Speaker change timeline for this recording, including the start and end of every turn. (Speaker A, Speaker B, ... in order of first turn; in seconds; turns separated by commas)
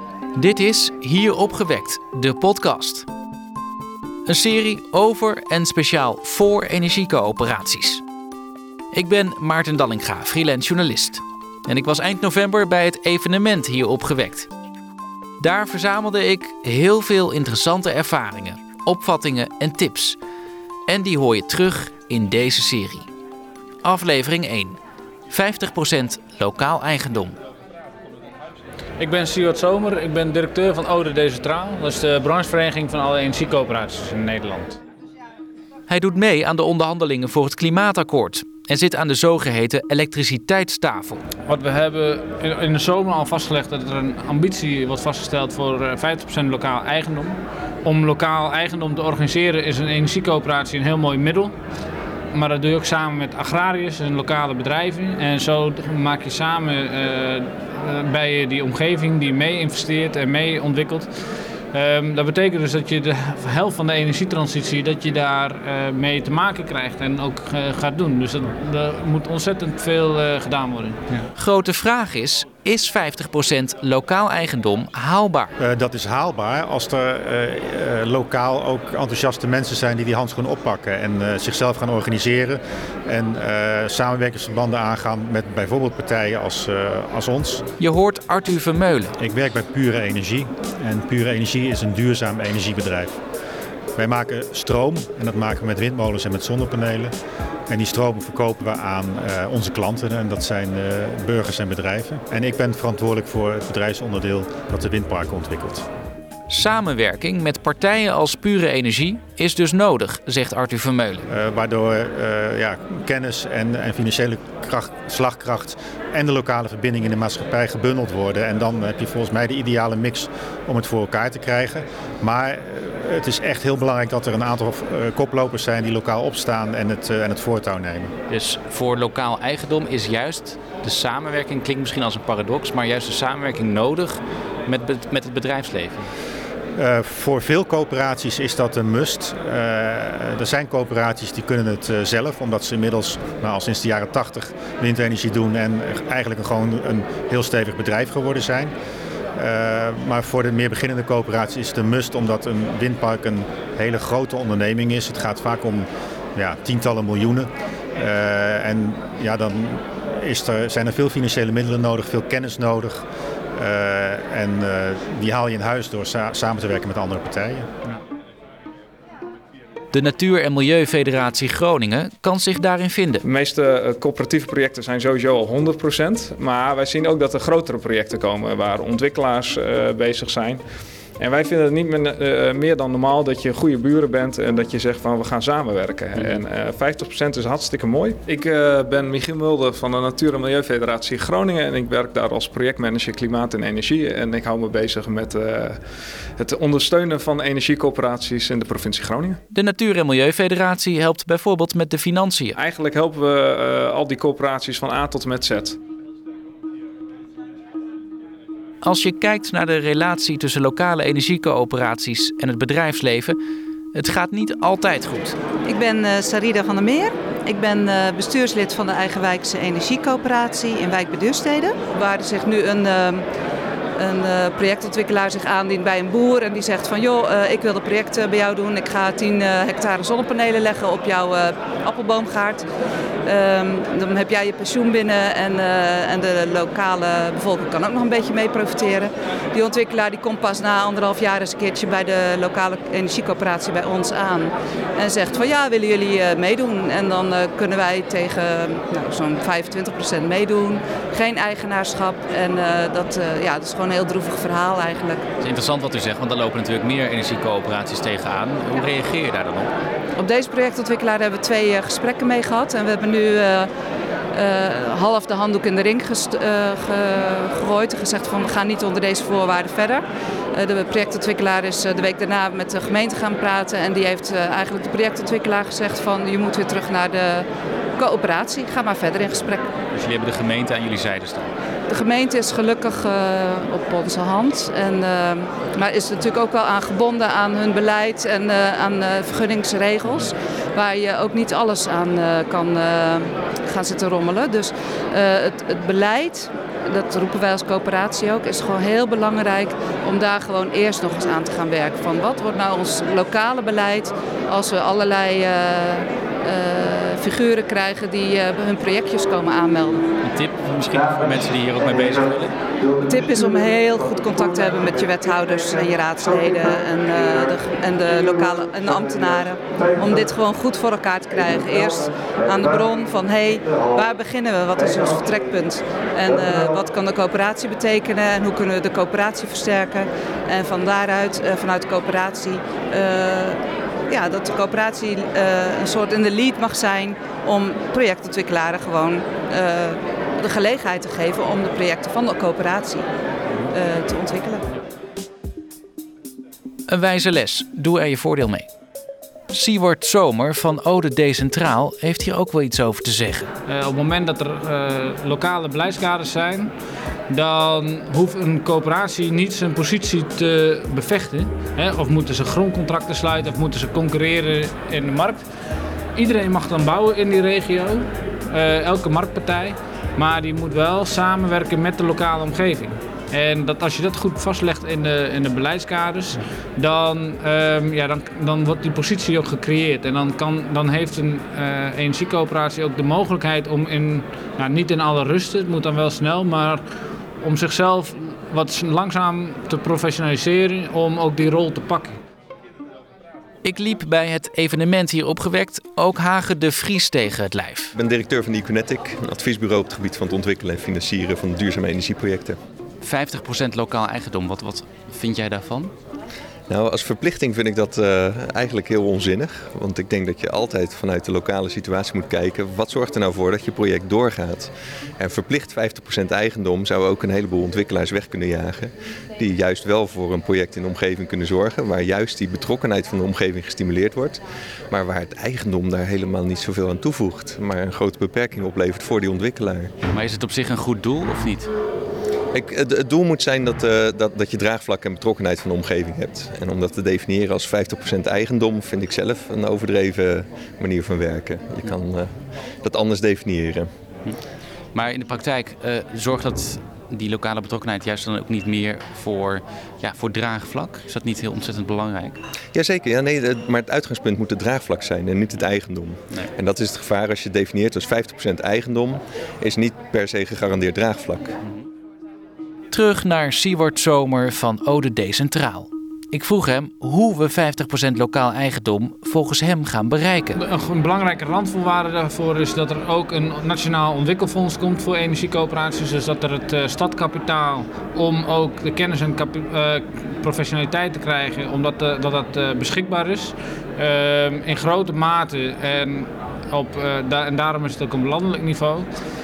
Speaker A: 0.3-3.1, Speaker A: 4.3-8.0, Speaker A: 8.9-14.5, Speaker A: 15.4-20.2, Speaker A: 20.9-23.1, Speaker A: 23.8-24.8, Speaker A: 25.3-27.4, Speaker B: 29.0-34.8, Speaker A: 35.9-41.2, Speaker B: 41.5-51.5, Speaker B: 52.3-61.1, Speaker B: 61.7-71.0, Speaker A: 71.3-75.5, Speaker C: 75.6-87.6, Speaker A: 87.8-89.2, Speaker C: 89.2-93.2, Speaker C: 94.0-97.1, Speaker C: 97.7-105.8, Speaker A: 106.5-111.3, Speaker C: 111.3-128.1, Speaker A: 128.3-136.1, Speaker C: 136.8-148.7, Speaker C: 149.3-167.7, Speaker A: 169.9-173.2, Speaker D: 173.2-180.6, Speaker D: 181.2-195.8, Speaker D: 196.4-199.4, Speaker A: 199.5-202.6, Speaker D: 202.5-205.8, Speaker A: 208.8-213.4, Speaker A: 213.9-215.4, Speaker E: 215.6-223.2, Speaker E: 224.0-232.7, Speaker E: 233.2-255.2, Speaker A: 255.4-259.7, Speaker E: 260.1-263.7, Speaker E: 264.3-279.7, Speaker A: 279.9-281.5, Speaker E: 281.9-310.0, Speaker A: 310.2-312.5, Speaker E: 312.9-343.1, Speaker E: 343.6-344.6, Speaker A: 346.9-348.7, Speaker A: 349.5-353.5, Speaker B: 353.6-356.7, Speaker B: 357.3-365.4, Speaker B: 366.1-386.8, Speaker B: 387.4-392.2, Speaker A: 393.6-397.9, Speaker F: 397.9-402.6, Speaker A: 403.0-405.9, Speaker F: 406.7-429.9, Speaker A: 430.1-431.7, Speaker F: 432.5-442.3, Speaker F: 442.8-443.9, Speaker A: 444.9-452.4, Speaker F: 452.7-461.5, Speaker A: 462.9-470.6, Speaker B: 470.6-489.1